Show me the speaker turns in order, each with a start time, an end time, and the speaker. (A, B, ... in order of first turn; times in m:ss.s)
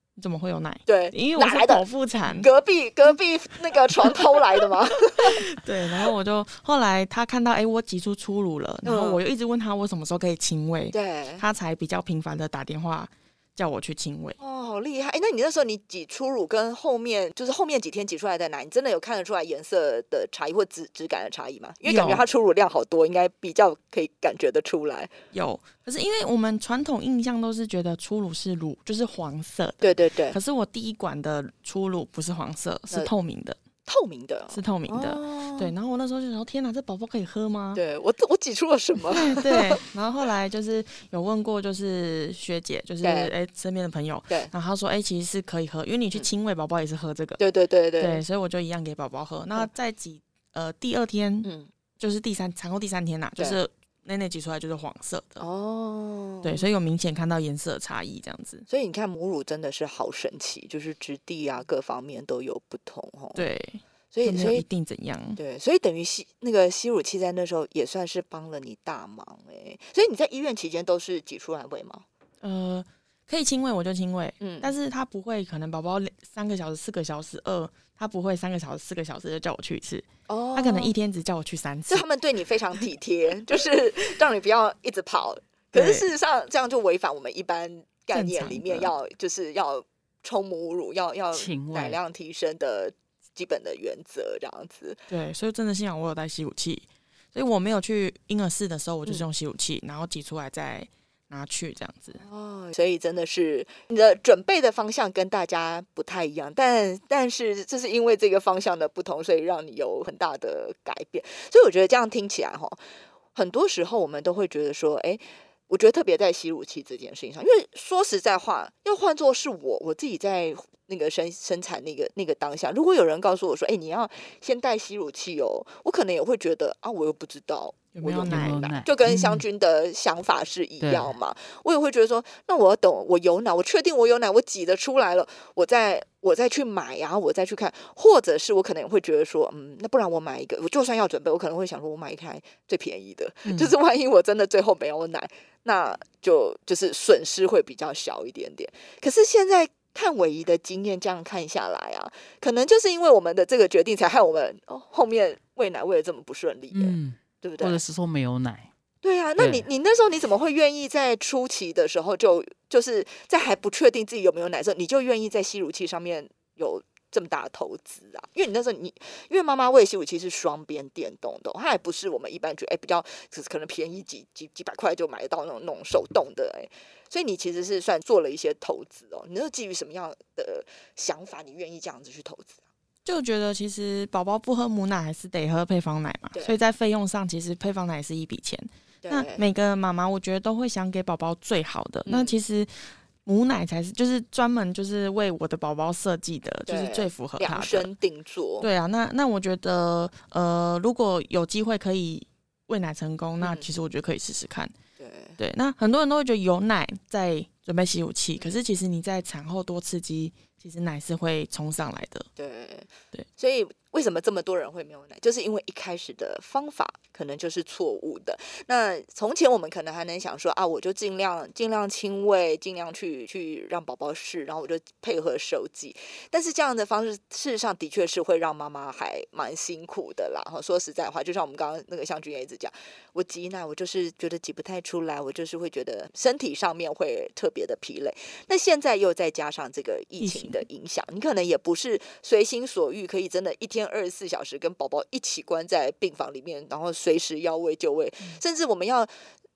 0:00.2-0:02.5 A
0:00.9-0:05.4 B
0:05.2-0:14.4 A
0:08.8-0:09.2 B
0:10.9-0:11.4 B
0:14.4-0:25.1 B
0:21.8-0:22.2 A
0:25.3-0:33.6 A
0:29.8-0:30.4 B
0:33.8-0:35.7 B
0:34.5-0:37.8 A
0:37.7-0:39.8 B
0:39.1-0:47.4 A
0:43.0-0:43.3 B
0:47.4-0:48.2 B
0:48.0-0:55.4 A
0:51.4-0:51.7 B
0:55.4-0:56.6 B
0:56.4-0:58.6 A
0:58.7-1:03.4 B
1:03.3-1:05.4 A
1:04.1-1:04.6 B
1:05.4-1:12.0 B
1:12.4-1:22.0 A
1:14.4-1:14.7 B
1:20.3-1:20.9 B
1:21.9-1:35.0 B
1:25.7-1:26.0 A
1:28.1-1:28.9 A
1:31.3-1:32.0 C
1:35.1-1:42.2 A
1:42.2-1:52.8 B
1:53.3-2:37.8 B
2:07.9-2:08.7 A
2:08.2-2:09.4 C
2:10.8-2:11.1 C
2:23.4-2:23.7 A
2:36.7-2:38.7 C
2:39.0-3:02.6 B
2:39.4-2:39.6 C
3:03.0-3:17.9 A
3:09.0-3:09.4 B
3:12.0-3:12.4 B
3:16.7-3:18.7 B
3:18.6-3:24.7 A
3:23.4-3:23.7 B
3:25.0-3:25.4 B
3:25.4-3:32.3 A
3:32.4-4:09.1 B
4:00.2-4:00.6 A